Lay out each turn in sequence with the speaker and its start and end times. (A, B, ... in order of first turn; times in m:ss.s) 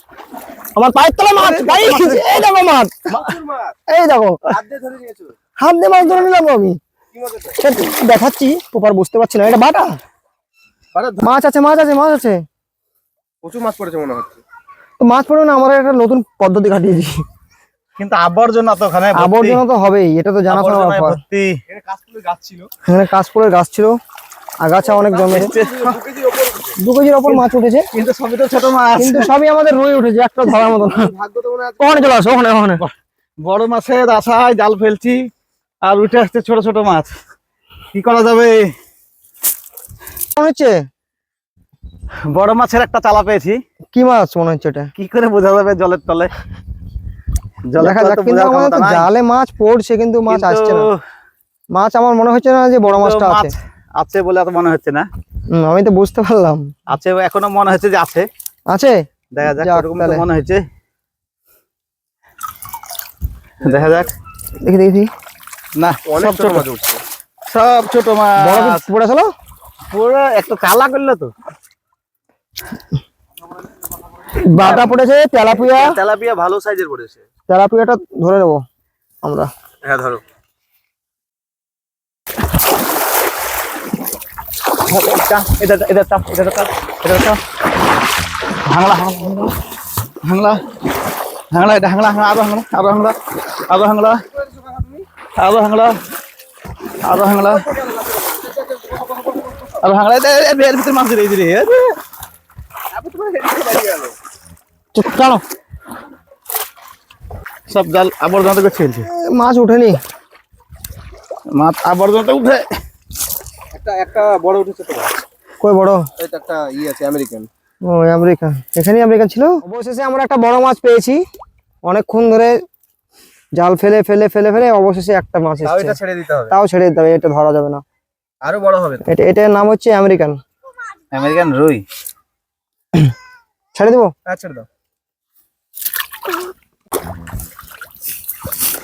0:00.8-0:03.1 A
0:01.4-0:02.5 B
0:03.1-0:03.4 B
0:03.3-0:03.8 C
0:03.9-0:04.4 A
0:04.5-0:05.4 C
0:05.6-0:06.8 A
0:07.1-0:07.6 C
0:07.6-0:10.0 A
0:10.9-0:11.2 C
0:11.2-0:12.4 A
0:13.4-0:14.4 C
0:15.0-0:17.1 A
0:18.0-0:19.6 B
0:19.2-0:21.2 A
0:20.5-0:21.6 B
0:21.7-0:22.7 C
0:22.9-0:24.0 A
0:24.6-0:25.5 A
0:24.9-0:26.8 C
0:25.3-0:26.0 B
0:26.8-0:27.9 A
0:27.2-0:29.3 B
0:29.0-0:31.1 A
0:30.7-0:32.3 C
0:31.8-0:32.8 A
0:32.8-0:35.3 B
0:35.8-0:37.1 B
0:37.9-0:38.7 B
0:40.4-0:40.8 A
0:42.3-0:43.6 B
0:43.9-0:44.9 A
0:45.0-0:46.3 B
0:47.7-0:49.1 B
0:47.8-0:50.9 A
0:50.3-0:51.0 B
0:51.7-0:53.5 A
0:52.9-0:55.1 B
0:55.5-0:56.8 A
0:56.9-0:58.3 B
0:58.7-1:00.3 A
0:59.3-1:00.6 B
1:03.6-1:04.1 B
1:04.6-1:05.1 A
1:05.8-1:06.7 B
1:06.1-1:07.0 C
1:07.5-1:08.8 B
1:08.4-1:09.3 A
1:09.9-1:11.3 B
1:14.3-1:16.0 A
1:14.6-1:15.0 C
1:15.5-1:17.2 C
1:17.5-1:18.6 A
1:19.2-1:19.5 A
1:19.8-1:20.2 C
1:24.9-1:27.4 B
1:28.7-1:29.6 B
1:30.2-1:30.6 B
1:31.5-1:34.2 B
1:34.4-1:35.1 C
1:35.4-1:35.9 B
1:37.0-1:37.7 B
1:37.7-1:39.6 C
1:39.8-1:41.9 B
1:42.9-1:44.2 C
1:44.9-1:45.4 A
1:47.7-1:49.1 B
1:49.1-1:50.0 A
1:51.6-1:52.7 B
1:53.7-1:55.2 C
1:55.6-1:56.0 A
1:56.2-1:57.5 C
1:57.8-2:01.2 A
2:01.8-2:02.5 A
2:03.6-2:06.0 A
2:05.6-2:06.5 C
2:06.5-2:07.8 A
2:08.4-2:09.0 C
2:09.1-2:10.4 A
2:11.1-2:11.8 B
2:13.7-2:14.1 A
2:14.3-2:14.7 C